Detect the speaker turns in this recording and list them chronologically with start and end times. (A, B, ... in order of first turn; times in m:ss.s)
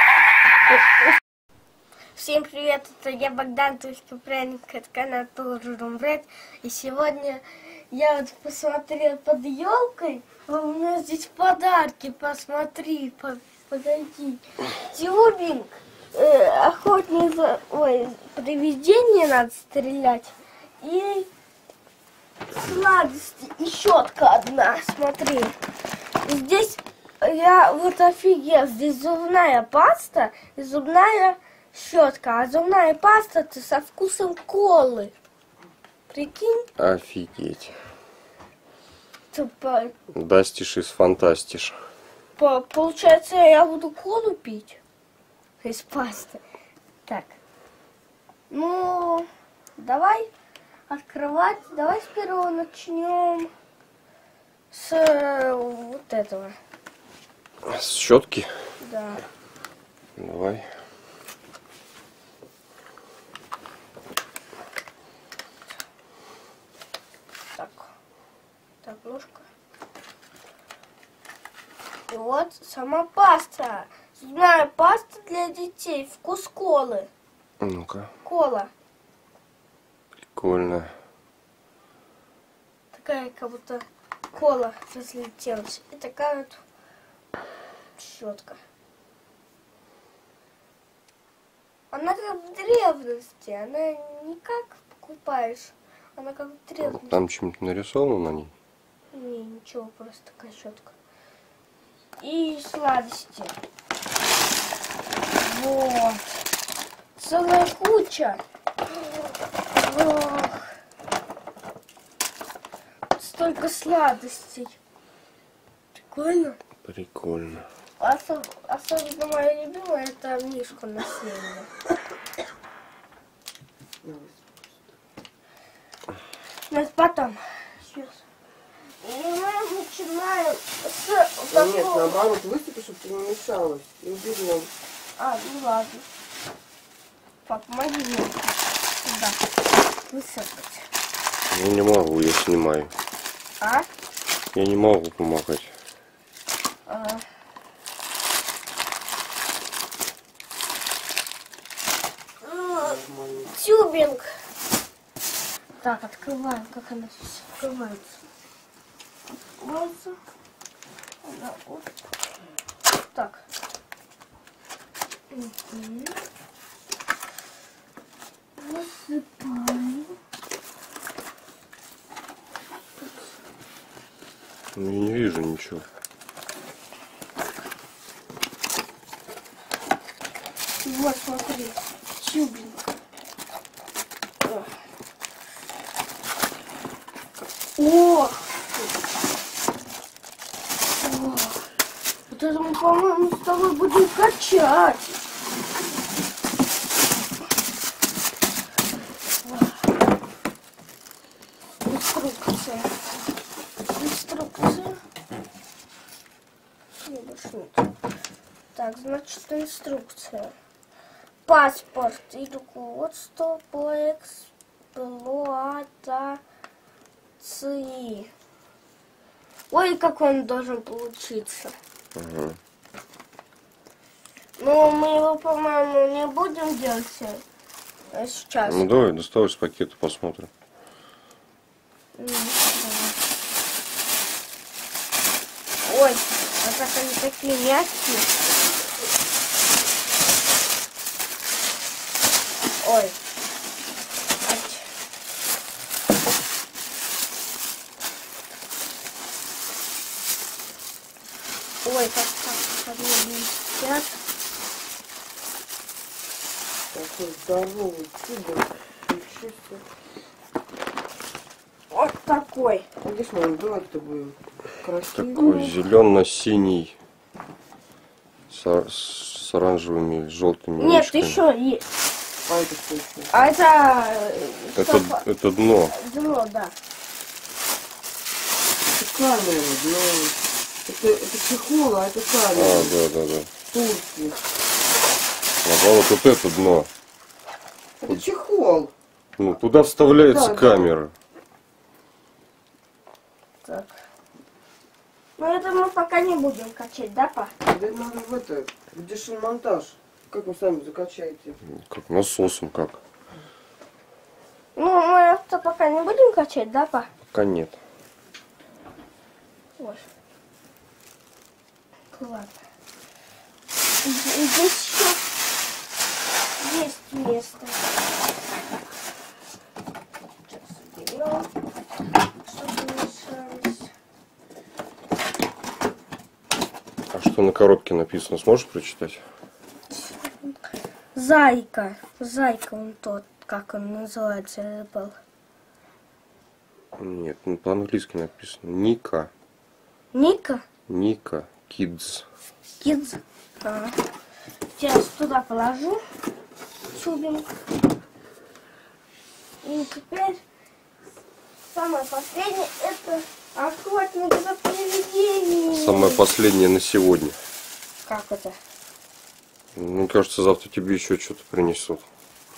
0:02.2-0:21.3 A
0:22.5-0:25.6 A
0:26.2-0:35.1 A
0:36.1-0:36.7 A
0:36.8-0:37.7 B
0:39.3-0:39.9 A
0:40.1-0:41.8 B
0:42.4-0:44.8 A
0:45.6-0:46.4 A
0:47.1-0:47.4 A
0:48.5-0:49.3 A
0:49.8-0:50.3 A
0:50.9-0:53.5 A
0:54.7-0:56.6 A
0:57.7-0:58.5 B
0:58.8-0:59.2 A
1:00.2-1:00.7 B
1:07.6-1:07.9 A
1:08.8-1:09.5 A
1:12.1-1:17.1 A
1:17.6-1:18.1 B
1:18.2-1:18.7 A
1:20.4-1:20.9 B
1:22.9-1:26.6 A
1:28.0-1:28.6 A
1:31.9-1:37.2 A
1:36.8-1:38.5 B
1:39.1-1:40.9 A
1:42.2-1:43.5 A
1:45.4-1:46.2 A
1:47.2-1:48.4 A
1:49.7-1:50.6 A
1:53.2-1:54.8 A
1:56.0-1:56.6 A
1:56.8-1:57.7 B
1:58.0-2:01.7 A
2:04.0-2:04.4 C
2:06.7-2:08.2 A
2:09.0-2:12.2 A
2:11.5-2:14.7 C
2:15.2-2:16.1 A
2:17.5-2:19.4 A
2:20.1-2:20.9 A
2:21.5-2:22.9 B
2:23.6-2:23.9 A
2:24.5-2:25.7 B
2:26.9-2:27.2 A
2:32.4-2:33.0 A
2:32.8-2:33.5 C
2:33.5-2:34.3 A
2:35.8-2:38.2 A
2:39.4-2:40.2 A
2:41.2-2:41.9 A
2:43.1-2:43.4 A
2:45.3-2:46.2 A
2:48.6-2:50.2 A
2:54.8-2:55.8 B
3:00.8-3:02.8 A
3:04.4-3:04.7 A
3:07.8-3:08.5 A
3:11.0-3:11.7 A
3:12.3-3:15.2 A
3:19.4-3:19.8 A
3:21.8-3:22.9 A
3:24.0-3:25.0 A
3:27.0-3:27.9 A
3:28.8-3:30.5 A
3:31.5-3:36.4 A
3:37.4-3:38.3 A
3:39.7-3:41.7 A
3:42.2-3:42.6 B
3:44.6-3:47.4 A
3:48.1-3:48.9 A
3:48.7-3:50.5 B
3:52.2-3:53.2 A
3:55.8-3:58.3 A
4:02.8-4:03.2 A
4:04.4-4:04.9 A
4:11.8-4:14.2 A
4:16.9-4:19.8 C
4:21.9-4:22.9 A
4:23.0-4:25.7 C
4:25.2-4:27.0 B
4:25.4-4:25.7 A
4:28.5-4:31.4 B
4:30.8-4:31.9 A
4:32.5-4:33.3 C
4:33.3-4:35.2 A
4:34.8-4:36.0 B
4:35.9-4:36.8 A
4:38.9-4:43.0 C
4:42.5-4:43.5 B
4:43.7-4:44.4 C
4:45.6-4:46.9 B
4:48.0-4:48.9 C
4:49.4-4:51.1 B
4:50.2-4:50.9 C
4:53.6-4:53.9 A
4:55.4-4:57.5 A
4:57.7-5:01.6 C
5:01.7-5:03.0 B
5:04.8-5:07.1 A
5:07.3-5:07.8 B
5:09.8-5:10.0 A
5:12.1-5:12.6 A
5:14.0-5:15.2 A
5:16.6-5:17.9 A
5:20.5-5:21.5 A
5:22.4-5:23.9 A
5:27.1-5:29.2 B
5:29.9-5:30.6 A
5:31.2-5:35.2 A
5:37.0-5:39.3 B
5:40.1-5:40.6 A
5:40.9-5:42.3 B
5:42.8-5:44.0 A
5:44.8-5:46.0 A
5:46.9-5:47.5 A
5:49.6-5:50.4 A
5:51.6-5:56.3 A
5:55.7-5:57.4 B
5:58.1-5:58.6 A
5:59.8-6:02.1 B